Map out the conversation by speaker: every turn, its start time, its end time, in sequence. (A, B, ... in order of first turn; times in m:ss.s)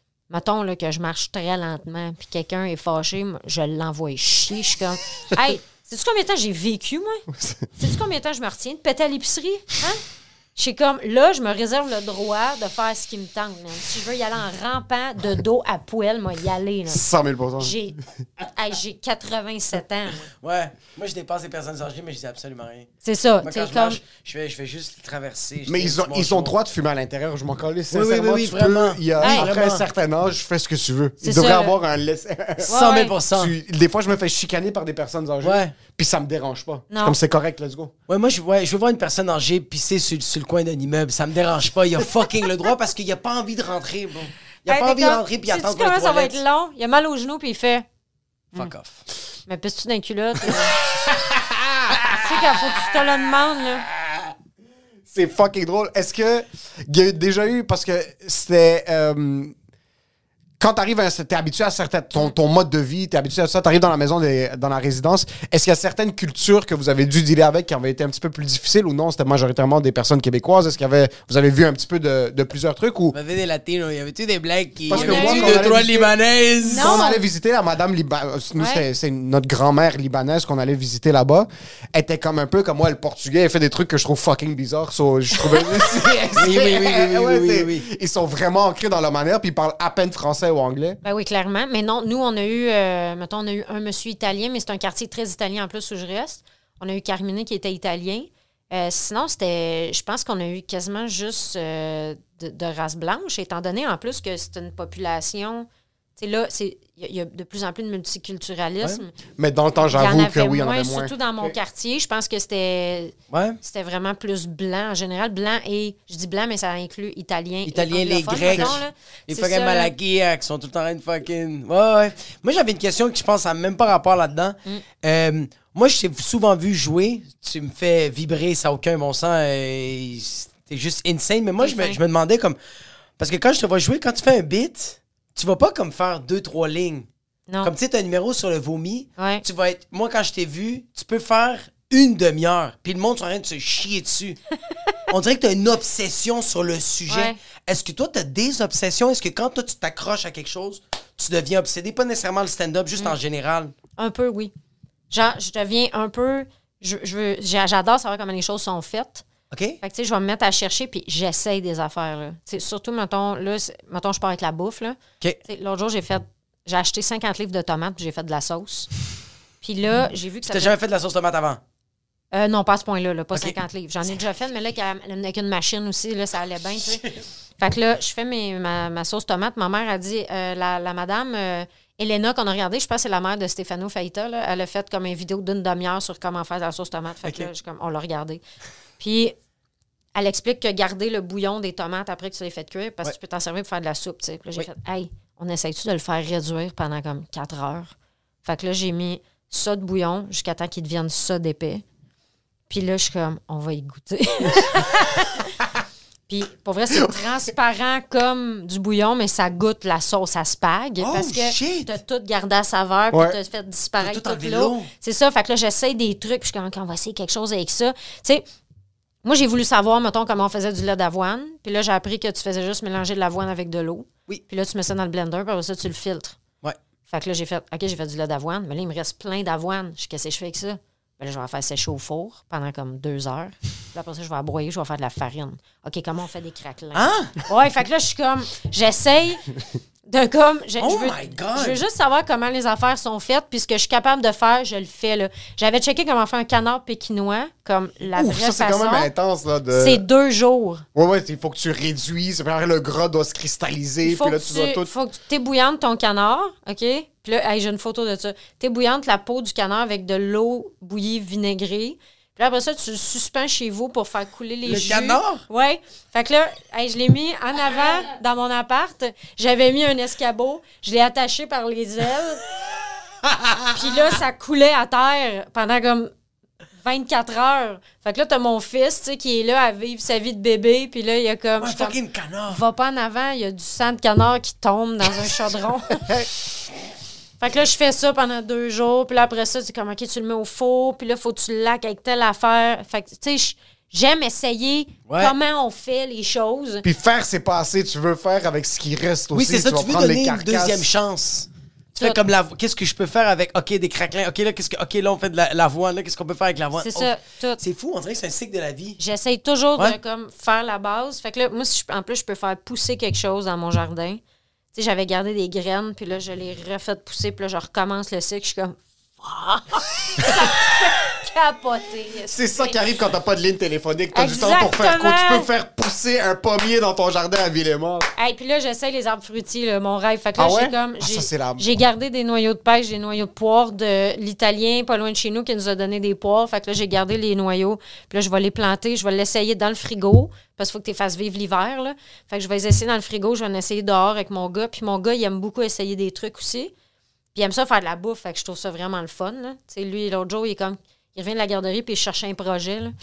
0:00.3-0:07.2 A
0:07.3-0:07.7 B
0:07.8-0:10.0 A
0:10.6-0:17.0 A
0:16.9-0:17.8 B
0:17.6-0:20.3 A
0:20.4-0:22.9 C
0:23.0-0:24.0 A
0:23.4-0:26.5 C
0:25.7-0:32.8 B
0:27.9-0:29.8 C
0:29.2-0:29.5 A
0:31.2-0:31.8 A
0:32.7-0:33.6 C
0:32.7-0:33.1 A
0:33.3-0:37.9 B
0:35.4-0:35.8 C
0:36.9-0:37.2 A
0:38.1-0:46.4 C
0:44.7-0:47.9 A
0:48.6-0:49.0 C
0:49.5-0:50.8 A
0:51.1-0:52.1 B
0:52.0-0:53.9 A
0:55.1-0:59.5 B
1:00.6-1:13.2 B
1:13.1-1:17.0 C
1:14.9-1:16.1 B
1:14.9-1:15.7 A
1:16.6-1:17.2 A
1:16.8-1:31.0 B
1:18.6-1:18.8 A
1:26.4-1:27.8 C
1:31.0-1:49.1 A
1:49.4-1:51.6 B
1:49.8-1:59.9 A
1:53.3-1:53.6 C
1:57.7-2:12.6 C
2:11.6-2:12.0 A
2:13.2-2:17.1 C
2:17.6-2:24.4 C
2:19.2-2:19.4 A
2:25.1-2:33.7 C
2:27.1-2:27.4 A
2:34.0-2:34.5 A
2:35.1-2:39.2 A
2:39.5-2:39.8 C
2:39.8-2:48.9 A
2:49.6-2:50.8 A
2:50.5-2:51.6 C
2:52.3-3:08.4 A
3:07.2-3:07.5 C
3:09.0-3:09.4 A
3:10.2-3:17.9 A
3:18.4-3:21.8 A
3:22.7-3:25.5 A
3:26.3-3:38.4 A
3:31.0-3:32.0 C
3:33.1-3:33.4 B
3:34.0-3:34.9 C
3:39.2-3:46.4 A
3:47.1-3:59.4 A
3:56.9-3:57.4 C
4:00.1-4:09.1 A
4:00.8-4:01.8 C
4:08.1-4:10.0 B
4:09.7-4:10.8 A
4:11.0-4:14.9 B
4:14.0-4:32.4 A
4:24.7-4:25.4 C
4:33.2-4:33.7 C
4:33.7-4:36.1 A
4:36.8-4:42.0 A
4:41.6-4:42.6 C
4:42.5-4:46.1 A
4:47.4-4:56.8 A
4:55.1-4:55.4 C
4:56.8-5:00.9 B
4:59.3-5:09.0 C
5:06.8-5:07.6 A
5:09.0-5:14.2 A
5:14.7-5:22.8 A
5:22.3-5:28.1 B
5:24.1-5:25.5 A
5:28.2-5:46.7 A
5:30.4-5:31.6 B
5:47.4-5:53.0 A